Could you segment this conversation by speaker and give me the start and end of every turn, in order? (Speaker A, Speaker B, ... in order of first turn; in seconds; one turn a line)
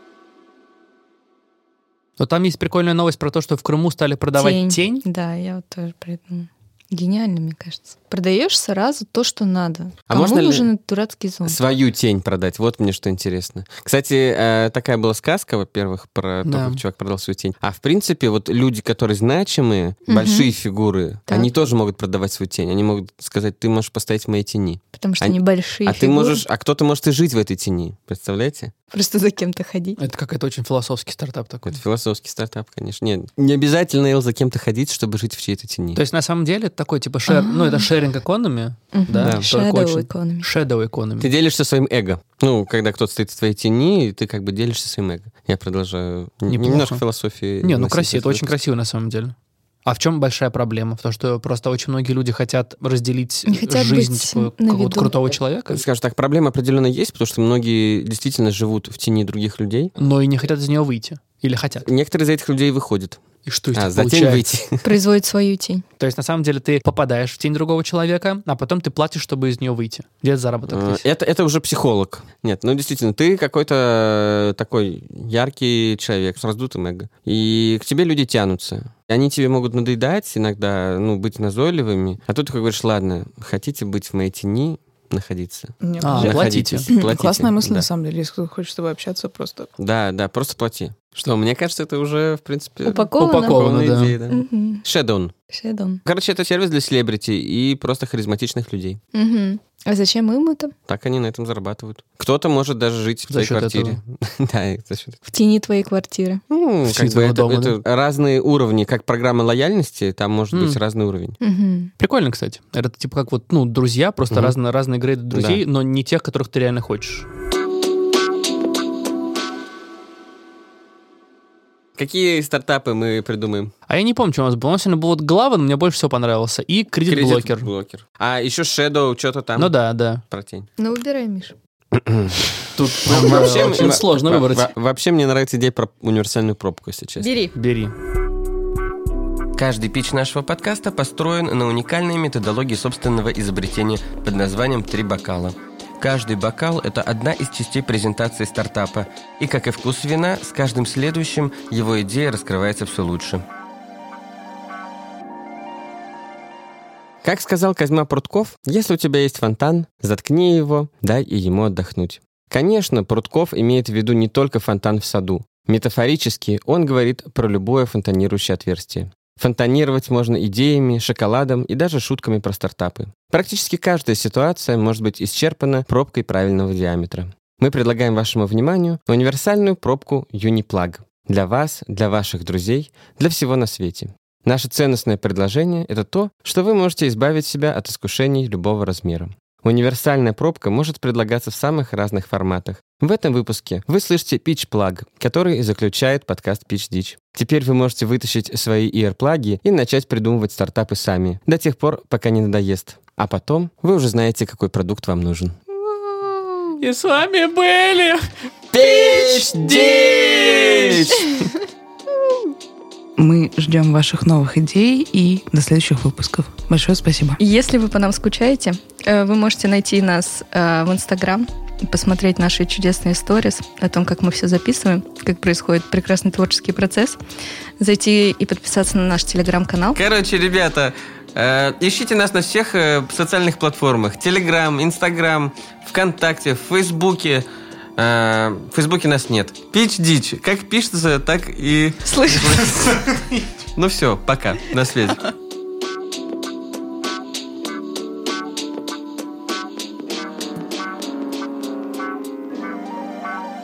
Speaker A: 2.2-5.0
Speaker B: 4.3-11.6
Speaker C: 10.1-10.7
Speaker C: 11.4-28.7
Speaker A: 16.4-16.8
Speaker B: 20.1-20.5
Speaker B: 24.9-26.4
Speaker B: 28.9-30.0
Speaker A: 30.0-31.8
Speaker C: 31.6-36.0
Speaker A: 36.0-41.3
Speaker B: 37.3-37.9
Speaker B: 38.9-40.5
Speaker C: 39.2-39.5
Speaker C: 41.2-48.5
Speaker A: 46.5-47.0
Speaker A: 47.6-49.3
Speaker A: 49.9-55.8
Speaker B: 53.5-55.3
Speaker C: 55.7-60.0
Speaker A: 60.0-61.9
Speaker C: 61.8-64.9
Speaker A: 63.4-64.5
Speaker B: 64.8-65.8
Speaker A: 66.0-71.0
Speaker C: 70.7-87.8
Speaker D: 85.8-89.7
Speaker A: 86.0-86.9
Speaker C: 89.8-95.3
Speaker B: 92.8-93.7
Speaker A: 93.1-94.2
Speaker B: 94.3-94.8
Speaker B: 95.5-96.0
Speaker C: 96.0-99.0
Speaker B: 99.1-100.7
Speaker C: 100.9-105.2
Speaker A: 103.3-104.0
Speaker B: 105.3-106.4
Speaker C: 106.5-111.4
Speaker A: 106.8-107.8
Speaker A: 110.5-110.8
Speaker B: 111.4-111.9
Speaker A: 112.0-117.3
Speaker C: 115.3-115.6
Speaker C: 122.0-123.7
Speaker A: 123.9-127.7
Speaker C: 127.0-130.7
Speaker A: 129.6-130.2
Speaker B: 130.8-131.5
Speaker C: 131.9-137.3
Speaker A: 132.8-134.7
Speaker B: 137.2-137.5
Speaker A: 137.5-137.9
Speaker E: 139.6-153.4
Speaker C: 157.2-205.5
Speaker B: 206.1-206.7
Speaker A: 206.8-208.2
Speaker C: 208.7-211.3
Speaker A: 209.3-211.1
Speaker D: 213.2-217.4
Speaker B: 217.4-227.2
Speaker B: 227.8-230.0
Speaker C: 229.9-245.3
Speaker B: 242.1-242.9